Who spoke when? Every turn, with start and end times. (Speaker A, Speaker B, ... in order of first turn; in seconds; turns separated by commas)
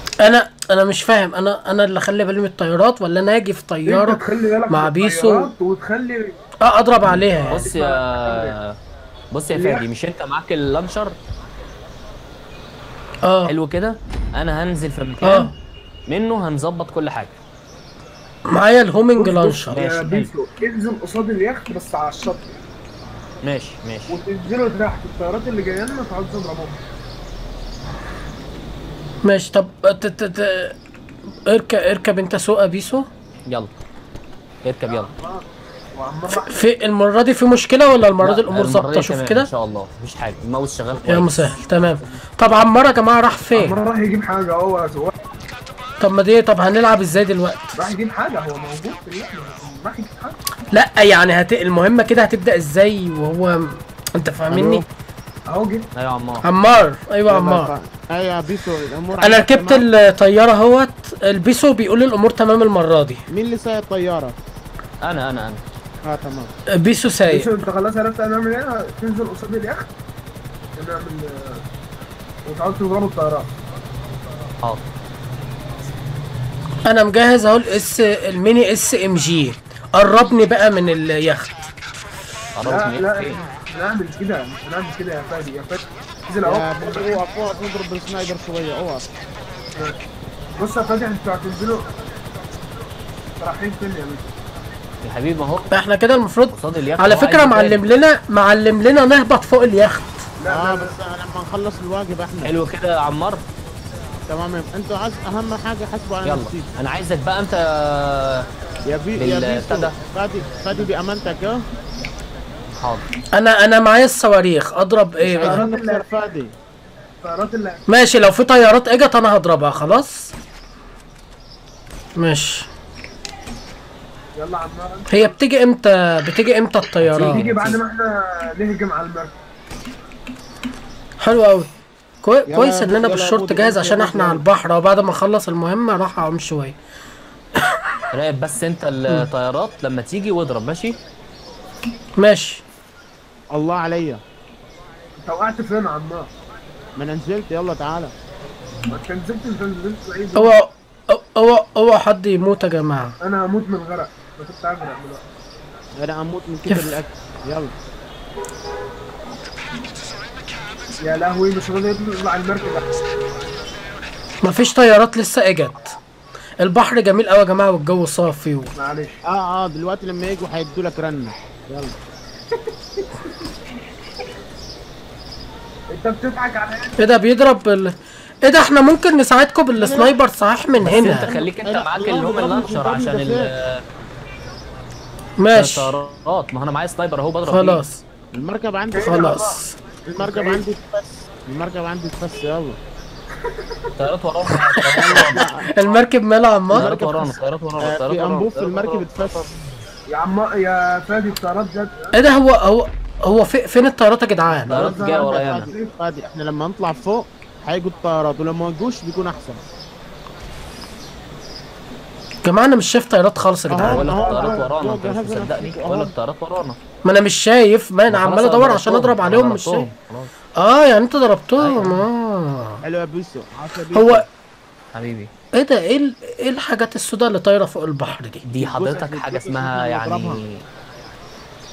Speaker A: 0.2-5.5, Speaker B: 3.9-6.4, Speaker A: 6.6-7.7, Speaker B: 7.1-8.6, Speaker C: 7.5-8.8, Speaker C: 9.3-11.2, Speaker B: 9.5-9.8, Speaker A: 13.2-13.5, Speaker C: 13.5-15.5, Speaker A: 15.2-15.5, Speaker C: 16.1-17.4, Speaker A: 18.5-19.8, Speaker B: 19.2-22.6, Speaker C: 19.7-20.3, Speaker C: 23.4-24.2, Speaker B: 24.1-26.8, Speaker A: 29.2-30.8, Speaker A: 31.5-33.1, Speaker C: 34.6-35.1, Speaker B: 34.9-35.4, Speaker B: 36.0-36.6, Speaker A: 36.3-39.5, Speaker C: 38.2-41.6, Speaker A: 41.1-43.8, Speaker B: 43.5-45.1, Speaker A: 46.0-47.7, Speaker B: 47.8-50.4, Speaker A: 50.7-54.9, Speaker D: 54.5-54.9, Speaker B: 55.5-55.9, Speaker C: 56.0-56.5, Speaker A: 56.4-57.7, Speaker D: 57.3-59.9, Speaker A: 59.2-63.2, Speaker D: 63.3-64.3, Speaker C: 65.0-65.6, Speaker D: 66.0-66.5, Speaker A: 66.8-67.5, Speaker B: 67.3-69.9, Speaker B: 70.8-71.6, Speaker B: 72.5-73.5, Speaker A: 76.9-81.5, Speaker C: 82.6-83.4, Speaker B: 82.6-87.2, Speaker D: 86.5-89.1, Speaker B: 90.6-91.8, Speaker B: 93.4-94.3, Speaker C: 95.0-95.7, Speaker A: 95.7-100.2, Speaker C: 96.5-97.9, Speaker B: 100.4-100.9, Speaker D: 100.5-102.5, Speaker C: 102.4-103.5, Speaker D: 104.3-106.7, Speaker C: 106.2-108.5, Speaker D: 108.9-111.6, Speaker C: 109.2-109.9, Speaker C: 112.8-113.0, Speaker A: 113.4-115.6, Speaker D: 115.2-116.5, Speaker B: 115.5-116.1, Speaker B: 117.2-117.8, Speaker A: 117.9-120.3, Speaker A: 122.2-122.7, Speaker B: 124.4-125.1, Speaker A: 125.1-127.4, Speaker C: 127.0-127.8, Speaker B: 127.2-129.4, Speaker A: 131.2-131.7, Speaker A: 132.2-136.8, Speaker D: 132.5-134.4, Speaker C: 138.1-141.0, Speaker A: 142.2-142.6, Speaker D: 143.5-144.2, Speaker B: 145.2-146.3, Speaker D: 147.0-148.1, Speaker B: 148.9-150.6, Speaker A: 150.3-153.2, Speaker B: 153.2-155.2, Speaker D: 156.0-157.7, Speaker A: 156.7-156.9, Speaker B: 161.0-162.8, Speaker A: 164.4-166.0, Speaker A: 166.6-168.7, Speaker B: 168.8-169.2, Speaker D: 169.3-171.9, Speaker B: 175.9-177.0, Speaker A: 177.0-181.3, Speaker D: 179.8-180.2, Speaker C: 180.8-183.8, Speaker D: 181.0-183.5, Speaker A: 185.4-185.9, Speaker C: 185.5-187.8, Speaker A: 187.4-188.0, Speaker D: 188.3-189.4, Speaker B: 188.9-189.6, Speaker A: 189.1-189.8, Speaker D: 190.1-192.8, Speaker B: 190.2-190.6, Speaker B: 193.4-193.8, Speaker C: 194.0-196.0, Speaker A: 195.0-196.9, Speaker D: 195.0-195.6, Speaker C: 196.7-199.3, Speaker D: 196.7-199.5, Speaker B: 200.1-202.2, Speaker A: 202.2-204.8, Speaker C: 204.7-205.7, Speaker B: 204.7-205.9, Speaker D: 204.8-209.6, Speaker A: 212.4-214.1, Speaker D: 213.7-216.1, Speaker B: 213.8-214.7, Speaker C: 213.8-216.8, Speaker A: 217.1-219.9, Speaker C: 218.1-220.3, Speaker A: 220.6-222.8, Speaker C: 221.6-222.0, Speaker D: 222.8-224.2, Speaker A: 223.9-224.2, Speaker C: 224.9-225.3, Speaker A: 225.6-228.4, Speaker C: 228.4-230.7, Speaker D: 228.6-230.4